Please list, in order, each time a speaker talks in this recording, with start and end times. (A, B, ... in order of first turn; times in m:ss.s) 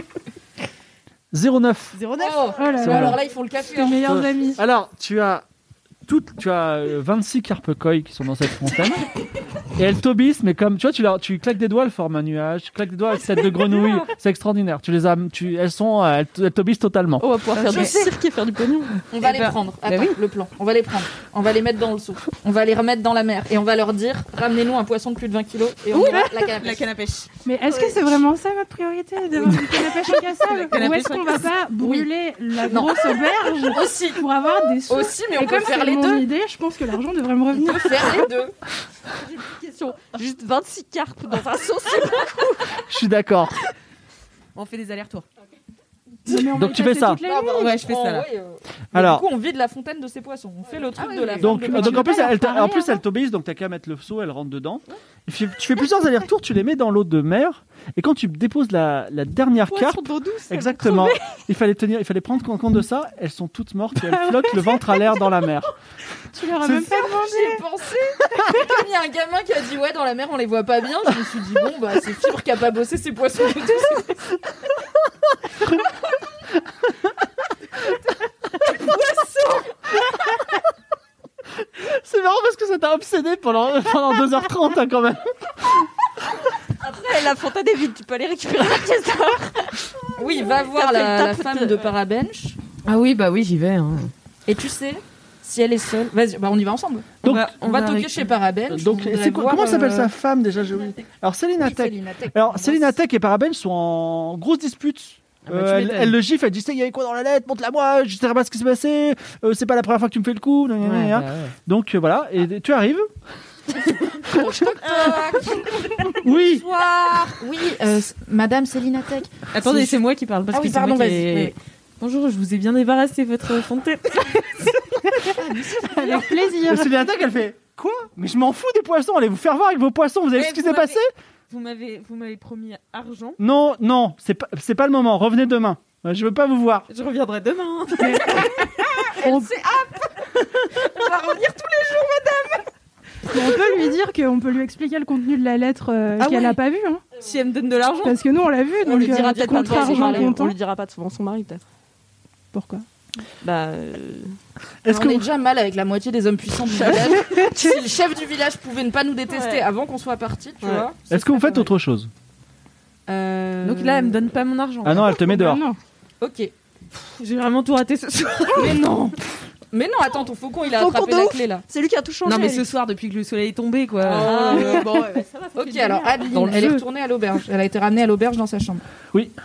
0:01.3-0:02.0 A
0:01.9-0:02.9 B
0:02.2-0:04.1 C
0:02.6-0:03.2 D
0:02.8-0:03.2 A
0:03.7-0:04.6 D
0:04.0-0:05.4 A
0:06.0-0:09.1 A
0:09.7-0:17.2 A
0:17.2-0:19.0 E
0:17.5-0:18.1 B
0:19.1-0:26.8 C
0:19.2-0:20.2 B
0:25.9-0:28.1 B
0:27.4-0:38.2 D
0:30.0-0:31.5 B
0:31.8-0:32.0 C
0:32.7-0:33.1 C
0:33.7-0:34.2 C
0:34.9-0:36.2 C
0:37.5-0:38.5 C
0:39.3-0:42.8 E
0:42.9-0:43.6 A
0:44.5-0:45.2 B
0:46.2-0:47.8 D
0:46.5-0:47.2 A
0:47.2-0:52.4 C
0:47.5-0:48.3 B
0:48.9-0:49.2 A
0:51.0-0:52.7 B
0:51.4-1:05.7 A
0:59.7-1:01.1 B
1:06.3-1:07.6 D
1:06.9-1:14.3 C
1:21.7-1:25.8 A
1:26.8-1:29.8 E
1:30.2-1:32.6 C
1:30.4-1:31.9 E
1:32.8-1:34.1 B
1:34.5-1:40.1 C
1:37.2-1:38.3 B
1:37.2-1:37.5 A
1:38.7-1:53.1 A
1:41.6-1:43.0 C
1:45.4-1:46.2 B
1:50.8-1:51.5 B
1:54.2-2:00.0 C
1:54.8-1:55.2 B
1:56.2-1:56.6 A
1:59.5-2:05.3 B
2:00.5-2:01.5 C
2:05.4-2:06.4 C
2:05.8-2:06.8 D
2:06.6-2:11.1 A
2:10.3-2:13.4 B
2:13.4-2:16.9 A
2:16.9-2:19.2 B
2:18.0-2:18.5 D
2:19.0-2:22.6 C
2:23.3-2:27.0 D
2:26.2-2:26.6 B
2:27.2-2:28.1 B
2:27.7-2:28.1 E
2:28.0-2:30.6 D
2:28.8-2:31.6 E
2:29.6-2:30.3 C
2:32.5-2:32.8 D
2:33.4-2:34.4 E
2:34.8-2:35.2 A
2:34.9-2:41.7 C
2:36.7-2:37.2 E
2:39.3-2:39.6 E
2:41.1-2:42.1 A
2:43.1-2:44.2 C
2:43.6-2:45.2 B
2:44.8-2:45.6 A
2:45.2-2:45.8 D
2:46.2-2:46.5 C
2:47.0-2:48.9 B
2:48.5-2:49.2 C
2:49.7-2:51.6 C
2:50.8-2:52.7 E
2:52.2-2:55.3 B
2:54.0-2:54.9 C
2:54.0-2:56.5 E
2:55.6-2:58.8 C
2:56.0-2:56.8 B